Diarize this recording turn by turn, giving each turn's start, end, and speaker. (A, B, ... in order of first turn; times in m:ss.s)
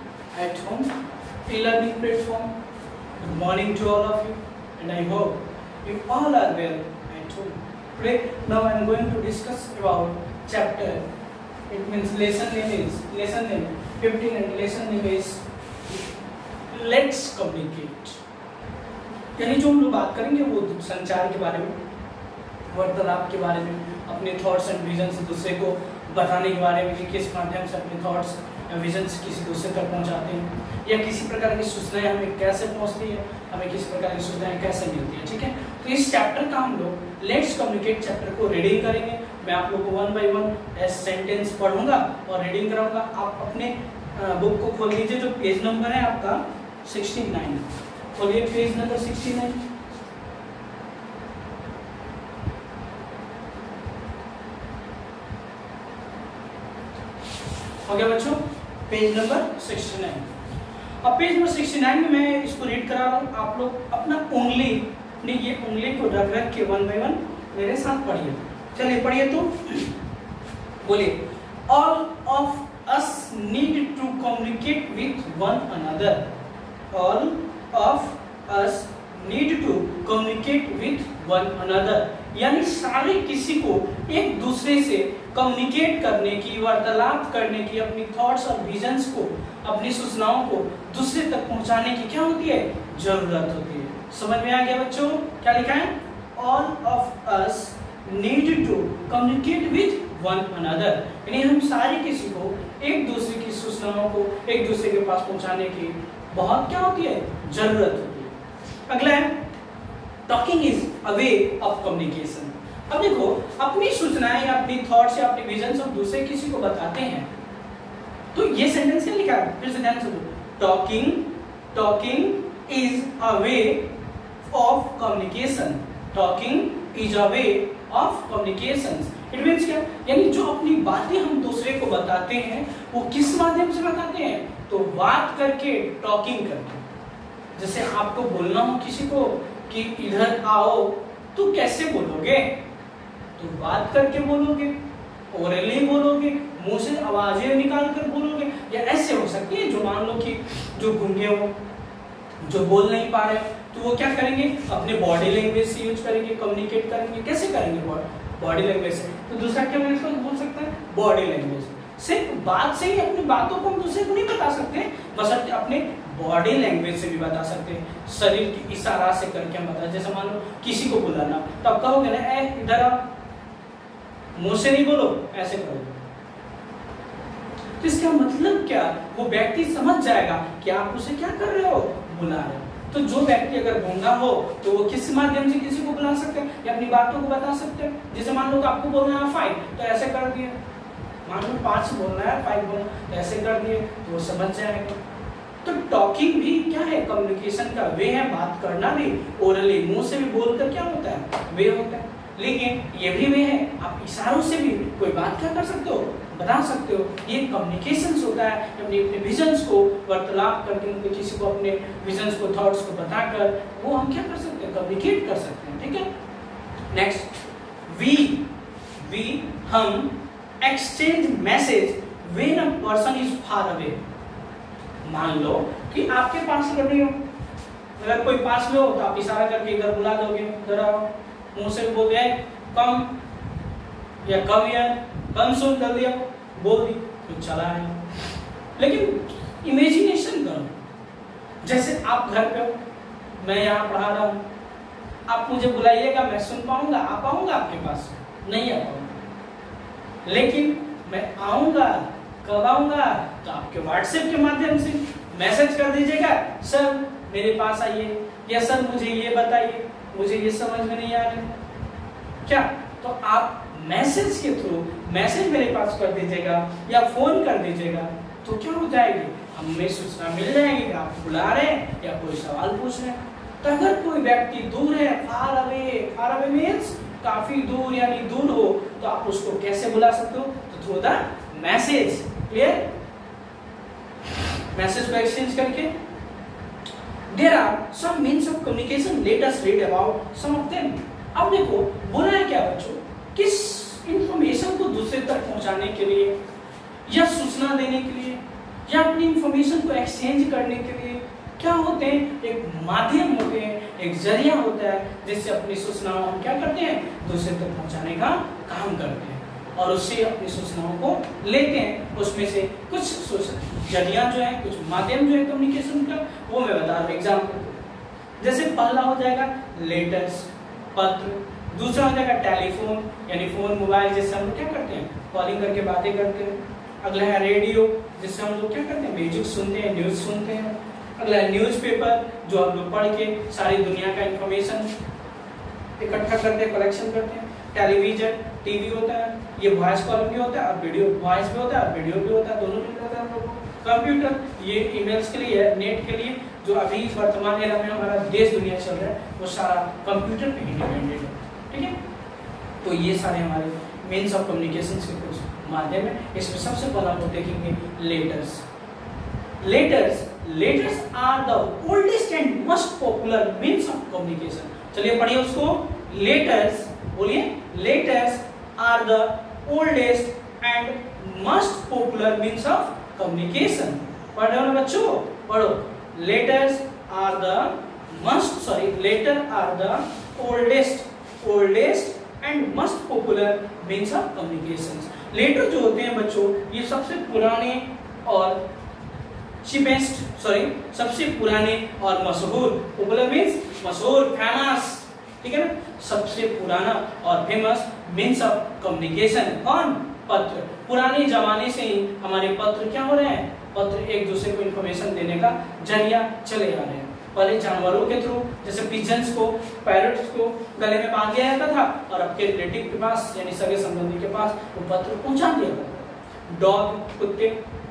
0:00.3-0:00.9 A
0:01.5-0:02.5 A
0:03.2-0:11.0 A
0:11.7-0:15.4 A
0:16.7-0:18.2 A
0:19.4-0:21.8 A
0:22.7-0:49.6 A
0:57.9-1:00.3 A
1:01.0-1:09.9 A
1:10.8-1:16.3 A
1:16.9-1:48.4 A
1:48.9-1:49.5 A
1:50.3-1:57.3 A
1:58.3-2:03.9 A
2:04.5-2:16.8 A
2:17.6-2:22.6 A
2:23.4-2:24.8 A
2:25.3-2:31.5 A
2:32.4-2:53.0 A
2:54.4-2:56.1 A
2:57.8-3:10.6 A
3:11.2-3:15.0 A
3:15.6-3:36.1 A
3:36.9-3:37.3 A
3:37.9-3:38.4 A
3:39.0-3:44.0 A
3:45.0-3:47.2 A
3:48.0-3:53.1 A
3:54.2-3:58.0 A
3:58.8-4:00.8 A
4:01.6-4:02.8 A
4:03.4-4:04.4 A
4:05.3-4:09.2 A
4:10.2-4:21.5 A
4:22.5-4:42.9 A
4:44.7-4:45.9 A
4:47.3-4:56.4 A
4:57.1-5:17.8 A
5:18.4-5:34.9 A
5:36.0-5:52.0 A
5:52.8-5:58.6 A
5:59.6-6:28.6 A
6:29.6-6:57.6 A